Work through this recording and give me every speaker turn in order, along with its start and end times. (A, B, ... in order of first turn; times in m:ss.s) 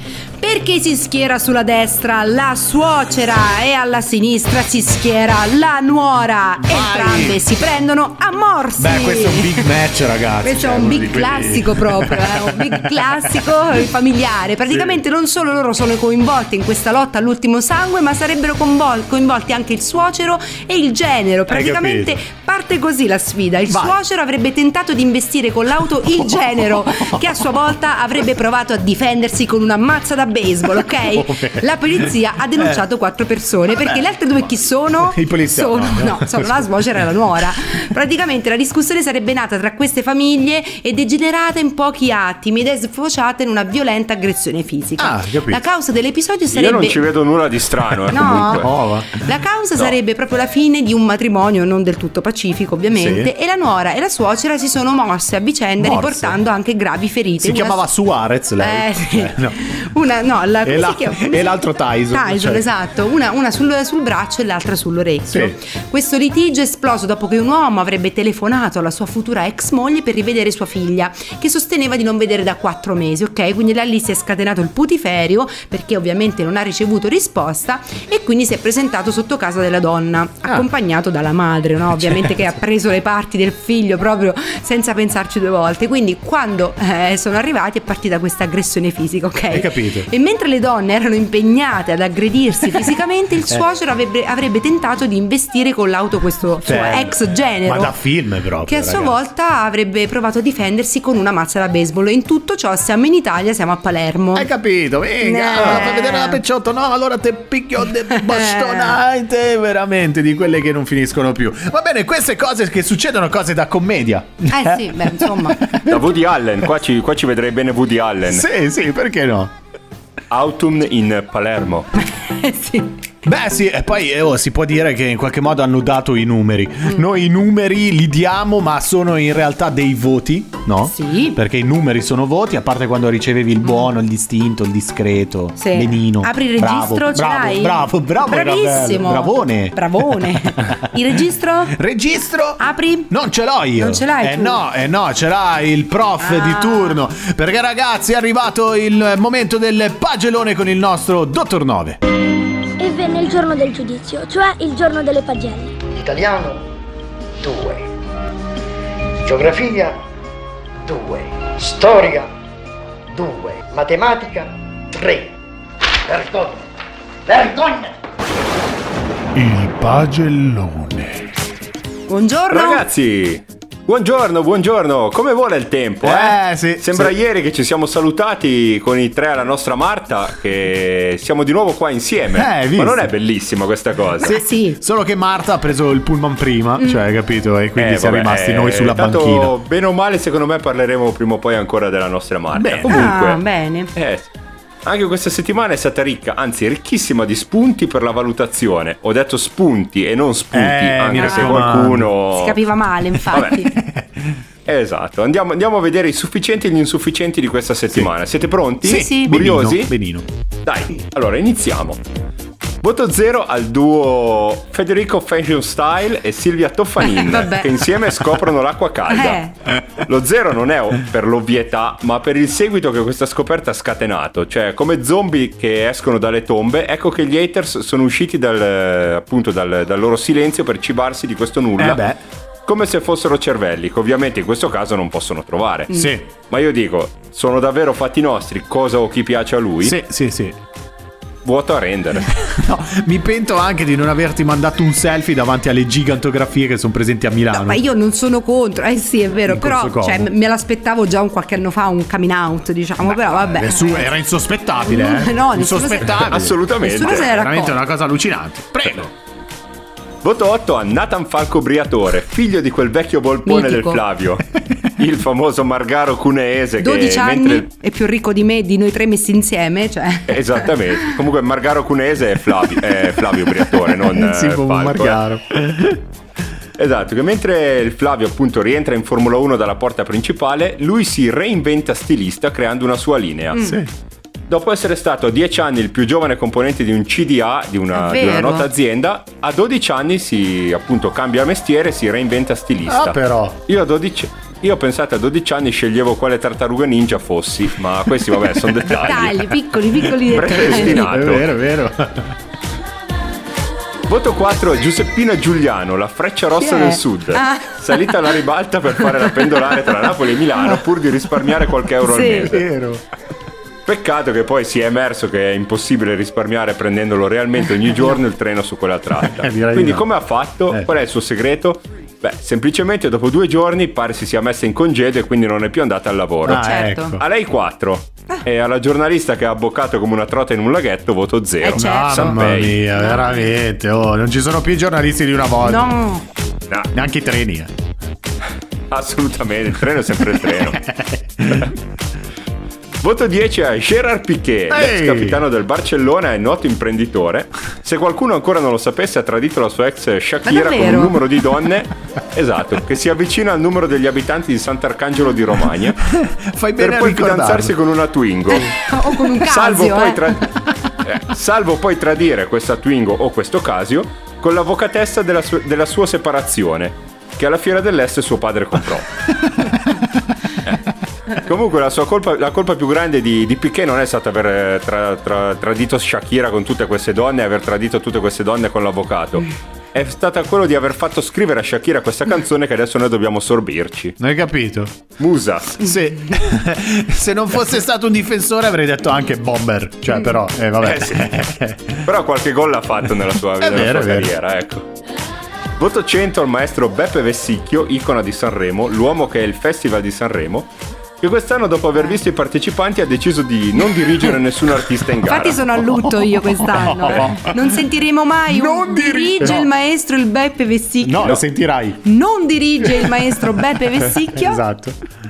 0:00.4-0:09.7 A
0:06.6-0:07.4 B
0:08.8-0:13.6 B
0:10.4-0:47.0 A
0:14.7-0:15.0 B
0:21.5-0:22.2 B
0:23.7-0:24.0 B
0:26.1-0:27.5 B
0:30.8-0:32.8 B
0:33.8-0:34.0 B
0:35.1-0:37.1 B
0:45.0-0:45.6 B
0:46.5-0:48.7 C
0:48.1-0:49.3 B
0:48.1-0:48.7 A
0:49.2-0:57.8 A
0:52.9-0:53.3 B
0:55.8-0:56.4 B
0:57.4-0:59.6 B
0:58.6-1:38.0 A
1:00.6-1:02.6 B
1:05.3-1:05.6 B
1:21.9-1:22.5 B
1:29.5-1:30.1 B
1:36.6-1:39.2 B
1:38.6-1:44.5 A
1:44.3-1:56.2 B
1:45.2-1:46.4 A
1:48.1-1:49.0 A
1:54.5-1:55.7 A
1:55.9-1:58.5 C
1:58.2-1:59.5 B
2:00.3-2:01.9 C
2:02.0-2:02.9 A
2:03.2-2:21.0 B
2:10.9-2:11.4 A
2:13.6-2:13.9 A
2:15.6-2:21.8 A
2:21.7-2:32.0 B
2:22.6-2:23.1 A
2:23.8-2:24.6 A
2:26.2-2:27.0 A
2:32.8-2:35.7 D
2:35.9-2:36.6 E
2:37.4-2:37.9 E
2:39.2-2:40.0 E
2:40.8-2:42.3 E
2:43.1-2:45.3 E
2:46.1-2:46.6 E
2:47.3-2:47.9 E
2:49.4-2:51.2 B
2:52.1-2:52.8 A
2:52.5-3:04.4 C
2:56.0-2:57.2 B
3:02.3-3:03.1 B
3:04.2-3:04.8 A
3:04.2-3:09.5 B
3:07.8-3:13.4 C
3:12.5-3:13.1 B
3:12.9-3:13.9 A
3:14.0-3:14.3 C
3:14.8-3:22.6 C
3:20.5-3:22.1 B
3:21.2-3:21.7 A
3:22.3-3:23.7 A
3:23.3-3:23.6 C
3:23.7-3:24.4 B
3:24.7-3:29.9 C
3:28.8-3:30.3 B
3:28.9-3:29.3 A
3:30.6-3:32.0 C
3:32.8-3:52.0 C
3:37.0-3:37.7 A
3:39.1-3:39.5 A
3:51.8-3:52.2 B
3:52.7-4:00.0 C
3:55.9-3:56.2 A
3:55.9-3:56.3 B
3:59.8-4:00.6 B
4:01.4-4:02.3 C
4:02.3-4:07.8 B
4:07.5-4:14.1 A
4:09.5-4:10.3 B
4:13.0-4:16.6 B
4:14.8-4:16.2 A
4:16.1-4:17.4 C
4:16.8-4:17.8 A
4:17.1-4:19.1 B
4:20.2-4:27.7 C
4:23.4-4:24.0 A
4:26.8-4:30.9 A
4:30.3-4:35.2 C
4:33.9-4:36.0 B
4:36.8-4:43.6 C
4:43.5-4:43.8 A
4:43.6-4:43.9 B
4:44.5-4:59.4 C
4:47.9-4:48.7 A
4:52.9-4:53.6 B
4:59.0-5:01.1 A
5:00.3-5:01.5 C
5:00.5-5:02.4 B
5:04.1-5:12.7 C
5:06.6-5:08.1 A
5:12.0-5:12.5 A
5:12.4-5:13.0 B
5:13.9-5:26.6 C
5:19.3-5:20.1 B
5:26.5-5:27.2 B
5:26.5-5:27.2 A
5:27.2-5:32.8 C
5:31.6-5:32.4 A
5:31.8-5:35.9 B
5:33.0-5:33.5 A
5:35.6-5:36.2 A
5:36.9-5:37.7 B
5:38.9-5:40.8 C
5:40.4-5:41.7 B
5:43.0-5:56.1 C
5:44.7-5:45.4 B
5:50.4-5:51.2 A
5:56.1-5:57.7 B
5:56.8-6:09.4 C
5:58.6-6:00.4 A
6:11.3-6:24.1 C
6:24.2-6:25.0 B
6:25.2-6:25.8 C
6:25.8-6:32.1 B
6:30.8-6:31.4 C
6:32.0-6:34.9 C
6:33.6-6:34.3 B
6:35.8-6:40.7 C
6:41.2-6:45.7 C
6:45.3-6:51.4 A
6:45.9-6:47.7 B
6:48.5-6:49.7 B
6:51.0-6:52.0 B
6:52.0-6:54.6 A
6:52.8-6:53.3 B
6:54.3-6:55.0 B